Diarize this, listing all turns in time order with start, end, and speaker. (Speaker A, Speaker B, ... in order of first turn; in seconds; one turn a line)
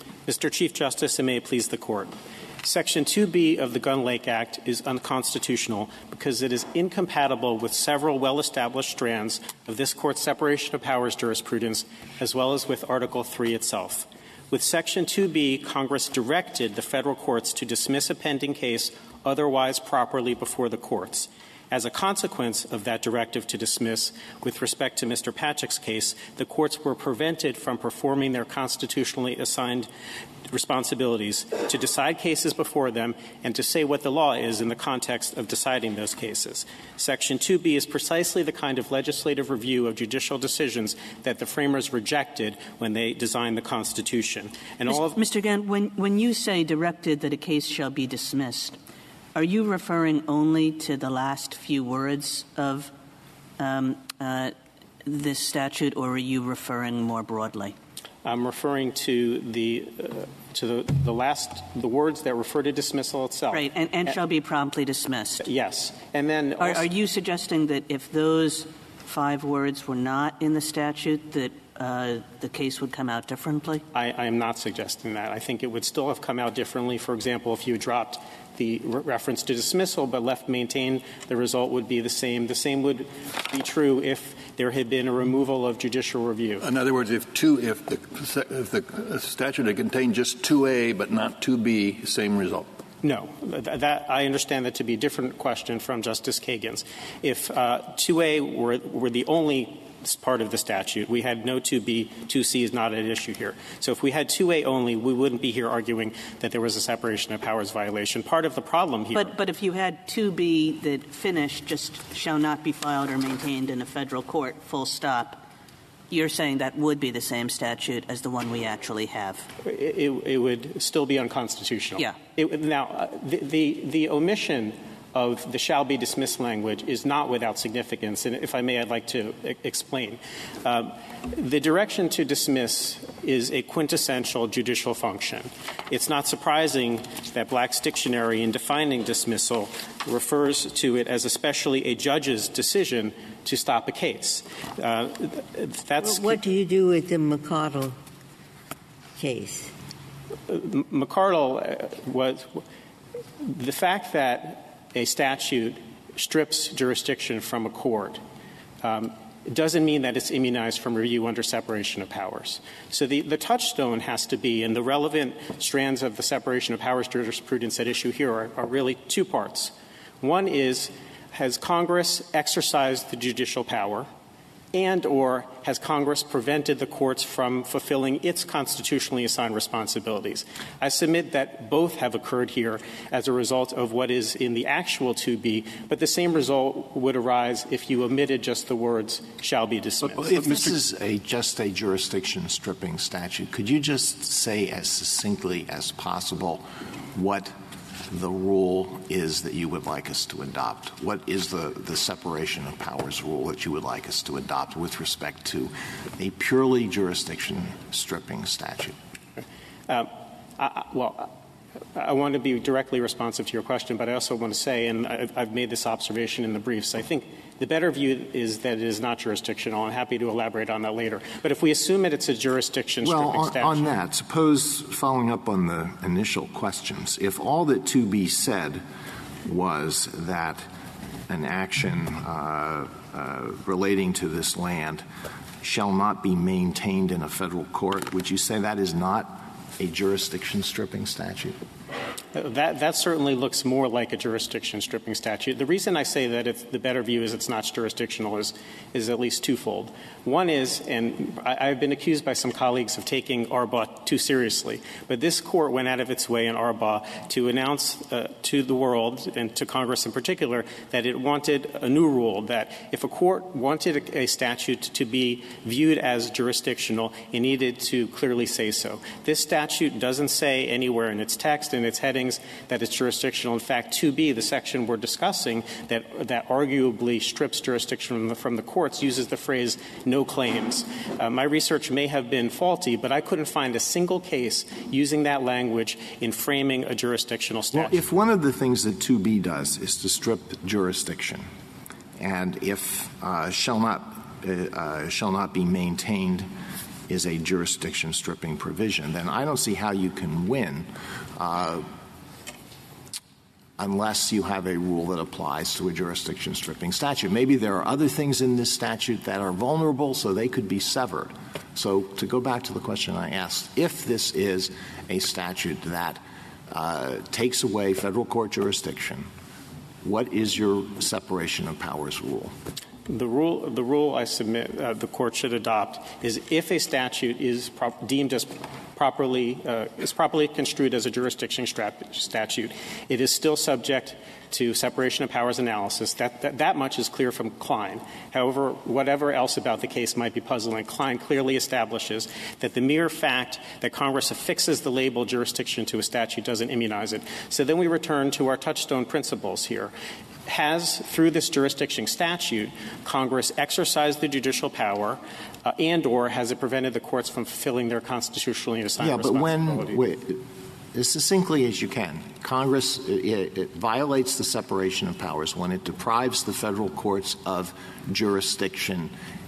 Speaker A: 0.3-29.9
Speaker A: 30.5-45.2
Speaker B: 44.9-48.8
Speaker B: 49.3-52.9
Speaker B: 53.6-54.5
Speaker B: 55.0-57.7
Speaker A: 58.2-63.6
Speaker B: 63.5-65.5
Speaker A: 65.4-66.9
Speaker B: 66.6-73.8
Speaker A: 73.9-86.6
Speaker C: 86.6-92.7
Speaker A: 93.0-109.3
Speaker B: 109.1-115.4
Speaker B: 116.1-119.5
Speaker A: 119.6-146.4
Speaker D: 146.0-148.0
Speaker D: 149.2-149.7
Speaker A: 150.5-152.6
Speaker A: 153.4-158.2
Speaker A: 158.8-174.1
Speaker A: 174.7-190.3
Speaker E: 190.1-197.5
Speaker E: 198.1-208.9
Speaker A: 209.9-211.3
Speaker A: 211.9-223.9
Speaker E: 223.0-228.8
Speaker E: 229.4-230.7
Speaker E: 231.3-235.1
Speaker E: 235.6-241.6
Speaker A: 242.3-288.0
Speaker E: 287.7-291.5
Speaker E: 292.2-296.5
Speaker E: 297.1-301.9
Speaker E: 303.8-319.3
Speaker E: 320.0-322.5
Speaker A: 323.1-349.9
Speaker A: 350.5-360.0
Speaker E: 359.0-369.1